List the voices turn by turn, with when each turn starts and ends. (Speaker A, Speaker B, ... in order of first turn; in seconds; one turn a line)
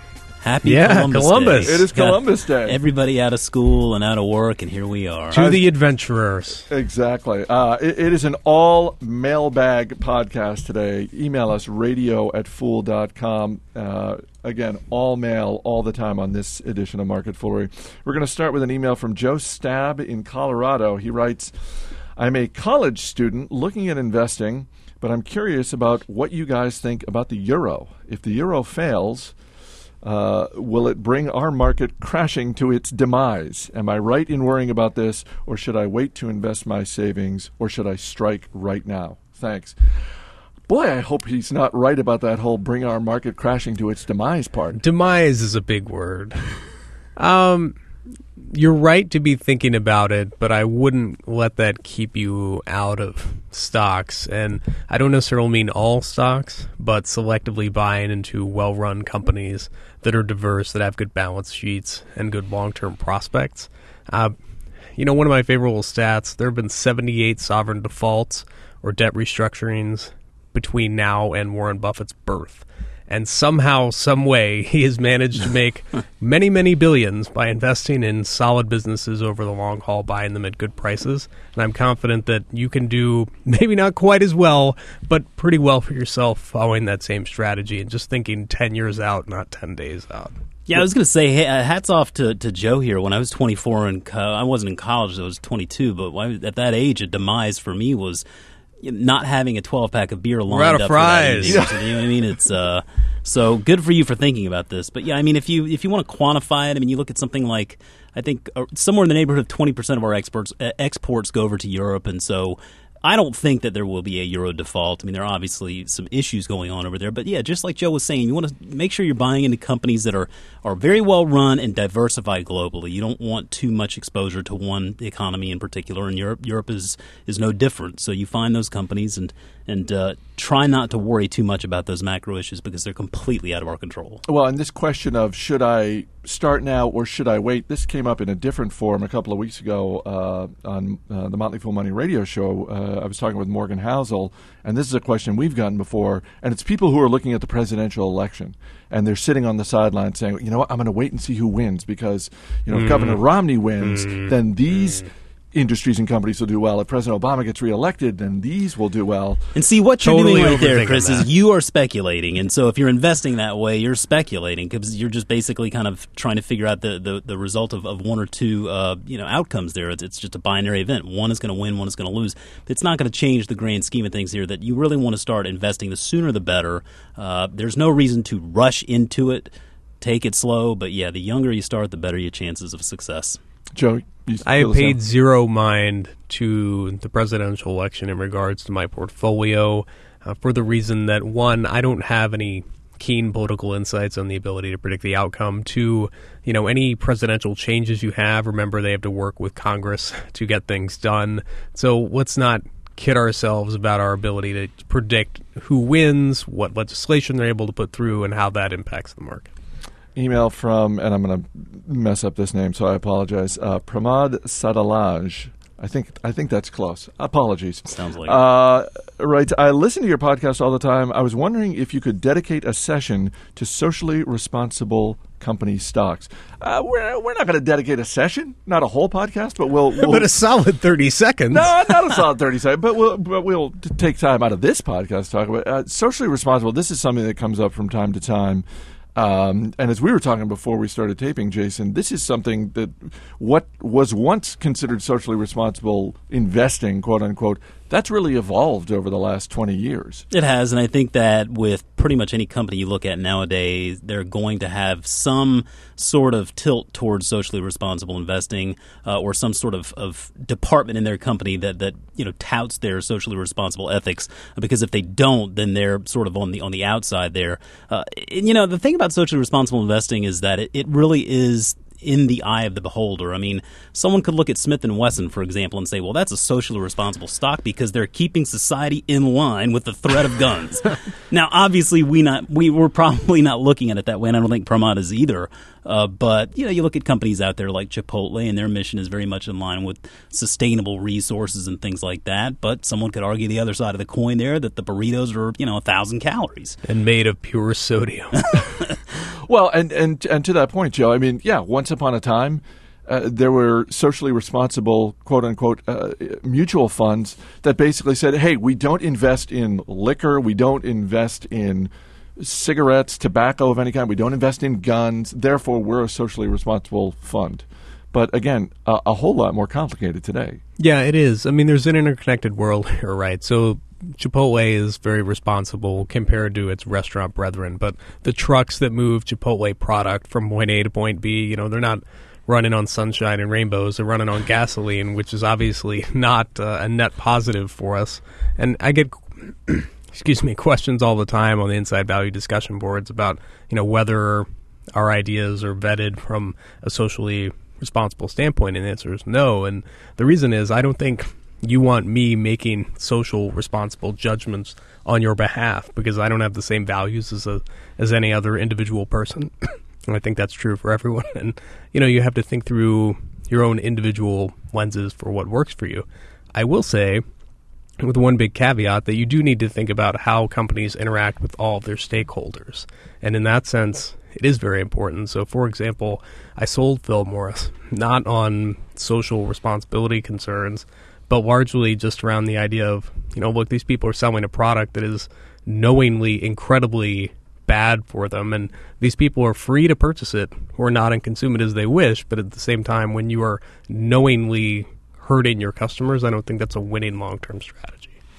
Speaker A: 0.4-5.4
Speaker B: 0.6-1.8
Speaker C: 1.6-2.8
Speaker B: 5.3-6.7
Speaker C: 5.3-5.6
Speaker C: 6.7-21.5
Speaker C: 22.2-29.4
Speaker C: 30.0-39.8
Speaker C: 40.7-44.8
Speaker B: 44.8-46.6
Speaker B: 47.2-47.7
Speaker B: 48.5-64.3
Speaker B: 64.9-90.3
Speaker A: 90.7-98.2
Speaker A: 98.8-134.2
Speaker B: 100.5-101.6
Speaker C: 101.4-102.2
Speaker C: 134.2-159.4
Speaker B: 152.7-153.2
Speaker B: 153.8-154.3
Speaker A: 159.5-179.5
Speaker B: 160.0-161.3
Speaker A: 180.0-183.4
Speaker C: 183.7-185.0
Speaker B: 184.4-209.5
Speaker C: 210.1-230.3
Speaker A: 217.9-218.4
Speaker B: 229.9-232.1
Speaker C: 231.5-238.6
Speaker C: 239.2-250.2
Speaker A: 250.3-296.8
Speaker B: 296.8-298.6
Speaker C: 299.4-320.6
Speaker B: 320.8-367.2
Speaker B: 368.0-398.1